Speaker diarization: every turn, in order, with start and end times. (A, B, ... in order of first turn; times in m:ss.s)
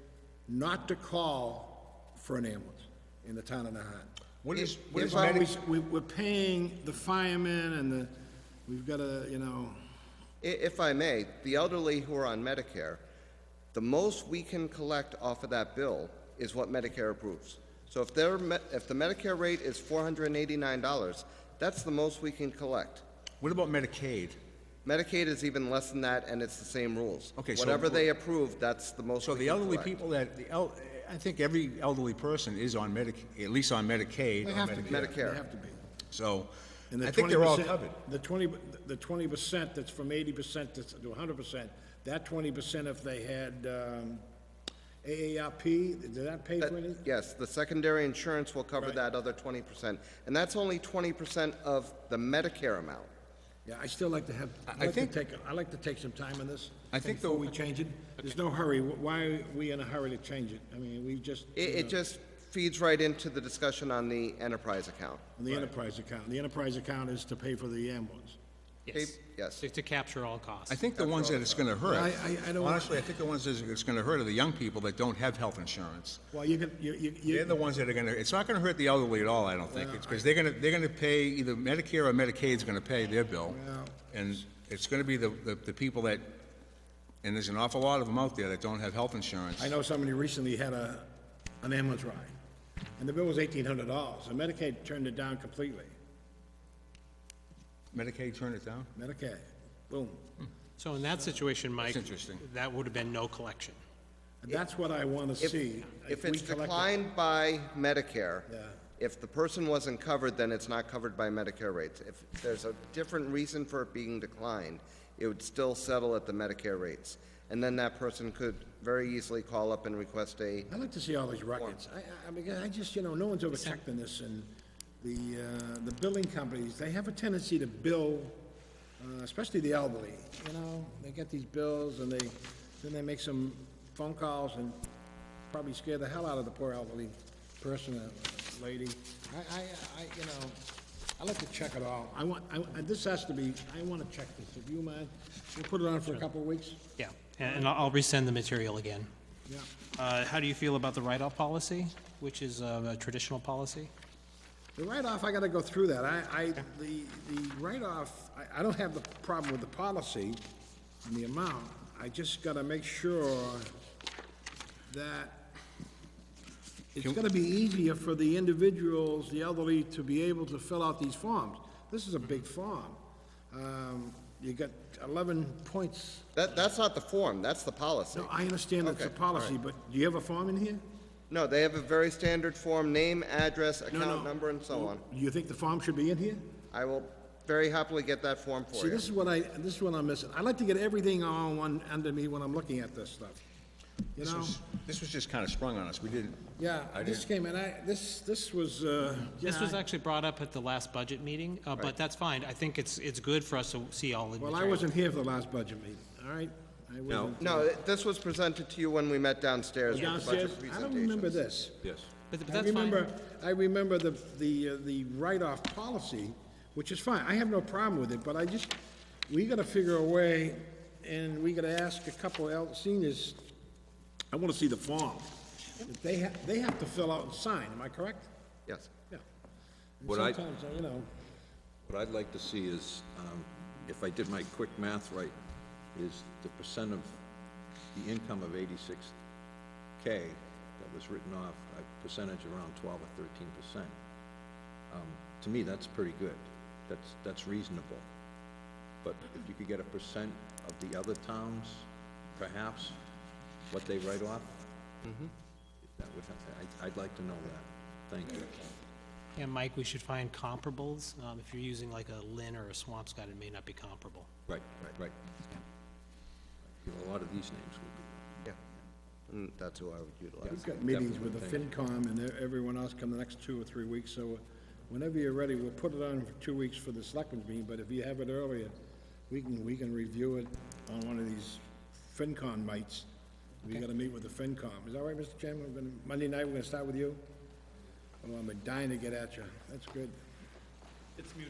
0:00.5-0:08.1 A
0:04.4-0:05.5 B
0:04.6-0:05.4 C
0:08.7-0:09.8 A
0:10.4-0:13.0 C
0:13.7-0:23.0 C
0:23.4-0:24.4 B
0:24.8-0:30.0 C
0:27.4-0:28.1 B
0:29.2-0:35.1 B
0:34.4-0:35.8 A
0:34.8-0:35.4 C
0:36.1-0:38.0 B
0:36.9-0:44.2 A
0:45.0-0:47.0 A
0:46.6-0:53.1 C
0:53.6-1:02.0 A
0:54.7-0:55.1 B
0:56.9-0:57.5 B
1:01.5-1:05.3 C
1:05.4-1:08.4 A
1:08.9-1:10.8 D
1:08.9-1:09.6 C
1:10.7-1:16.2 B
1:11.0-1:11.6 C
1:11.8-1:13.1 A
1:16.3-1:17.6 A
1:17.2-1:23.6 B
1:19.7-1:20.2 A
1:23.5-1:24.0 A
1:24.1-1:26.4 B
1:27.2-1:29.7 B
1:29.6-1:31.1 A
1:31.6-1:32.3 A
1:33.0-1:35.9 A
1:37.9-1:38.9 B
1:38.9-1:40.3 A
1:40.8-1:43.8 D
1:41.8-1:42.4 B
1:44.4-1:47.0 A
1:45.4-2:00.7 C
1:48.5-1:48.8 A
2:00.7-2:04.5 A
2:03.5-2:03.8 D
2:05.0-2:08.4 A
2:09.0-2:14.8 A
2:15.5-2:20.6 A
2:21.2-2:26.8 A
2:27.0-2:29.1 D
2:29.9-2:33.9 D
2:34.8-2:40.4 A
2:41.0-2:43.7 A
2:44.9-2:45.5 A
2:46.9-2:53.0 A
2:53.5-2:56.3 A
2:56.3-2:59.5 C
2:58.1-3:00.8 A
3:01.3-3:05.0 C
3:03.9-3:06.5 A
3:06.7-3:09.0 C
3:08.7-3:13.4 A
3:14.1-3:14.6 A
3:14.2-3:16.5 B
3:16.6-3:19.8 A
3:19.4-3:24.8 D
3:24.4-3:27.7 A
3:27.1-3:27.4 E
3:27.4-3:31.4 C
3:29.9-3:31.8 A
3:29.9-3:30.3 D
3:31.8-3:32.1 E
3:32.3-3:33.0 D
3:32.4-3:38.8 A
3:39.3-3:43.4 A
3:44.3-3:48.3 A
3:50.0-3:51.1 A
3:50.0-3:50.4 E
3:51.8-3:55.3 E
3:55.9-3:57.2 E
3:57.9-3:59.2 E
4:00.0-4:03.9 E
4:04.9-4:08.0 E
4:09.0-4:13.0 E
4:13.7-4:14.6 E
4:15.0-4:15.3 C
4:15.9-4:18.7 E
4:19.4-4:24.3 D
4:24.5-4:25.1 E
4:26.8-4:28.3 E
4:29.3-4:30.6 C
4:30.4-4:31.7 E
4:30.4-4:38.7 A
4:39.3-4:43.1 A
4:43.6-4:47.2 A
4:48.2-4:50.1 A